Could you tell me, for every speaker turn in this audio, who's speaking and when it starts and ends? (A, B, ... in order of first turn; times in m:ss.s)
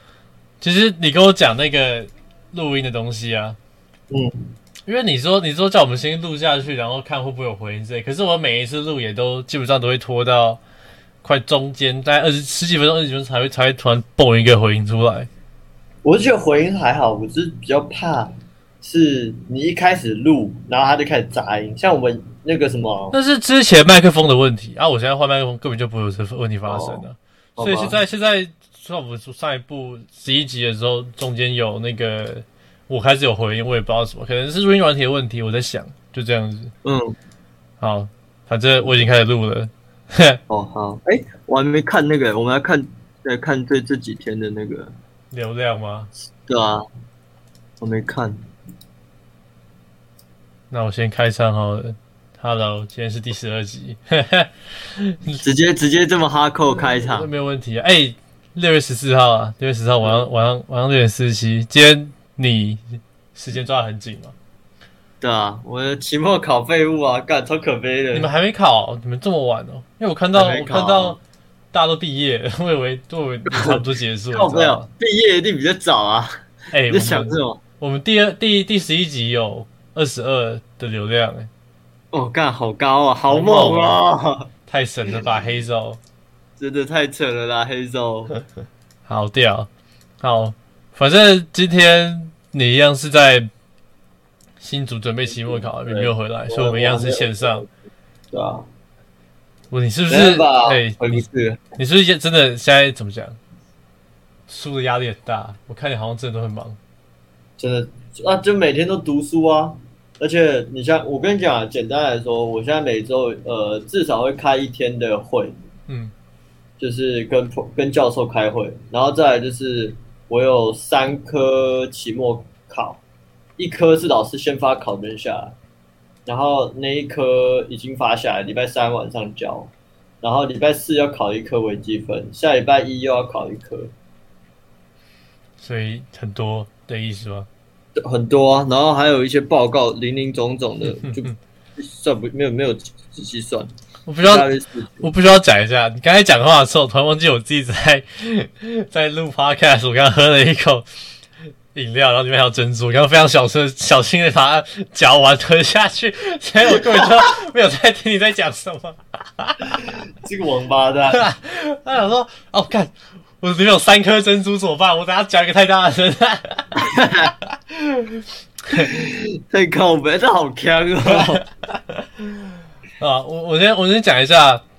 0:00.6-0:03.6 A
0:04.1-0:04.5 B
0:04.9-0:10.6 A
0:11.2-0:15.3 A
0:16.0-0:23.1 B
0:23.1-0:36.7 A
0:26.7-0:27.0 B
0:27.6-0:28.0 B
0:36.8-0:37.2 B
0:37.8-0:40.4 A
0:40.5-0:44.9 B
0:45.3-0:46.1 A
0:46.4-0:46.8 B
0:47.8-0:48.4 B
0:50.7-0:55.4 A
0:55.4-0:57.3 B
0:56.9-1:04.3 A
1:00.0-1:00.3 B
1:05.2-1:08.3 B
1:08.1-1:11.2 A
1:10.3-1:11.2 B
1:11.7-1:14.8 A
1:13.5-1:16.4 B
1:16.7-1:21.5 A
1:16.9-1:17.6 B
1:22.1-1:24.5 B
1:23.3-1:24.0 A
1:24.7-1:26.0 A
1:26.6-1:28.3 B
1:29.1-1:29.7 A
1:30.2-1:33.5 A
1:34.6-1:37.6 A
1:35.3-1:37.7 B
1:38.3-1:38.6 B
1:39.7-1:41.2 A
1:40.1-1:41.6 B
1:41.8-1:43.4 A
1:44.5-1:46.8 A
1:47.6-1:55.5 B
1:55.9-1:56.1 A
1:56.8-2:03.0 B
2:03.6-2:05.5 B
2:06.2-2:09.7 B
2:10.2-2:13.9 B
2:15.6-2:17.5 A
2:18.0-2:23.7 B
2:20.9-2:21.3 A
2:24.0-2:24.5 A
2:24.2-2:25.1 B
2:25.0-2:30.8 A
2:31.7-2:39.9 A
2:40.2-2:41.2 B
2:41.1-2:46.9 A
2:46.8-2:47.3 B
2:47.4-2:49.1 A
2:48.8-2:51.4 B
2:51.7-2:52.0 A
2:53.0-2:54.6 A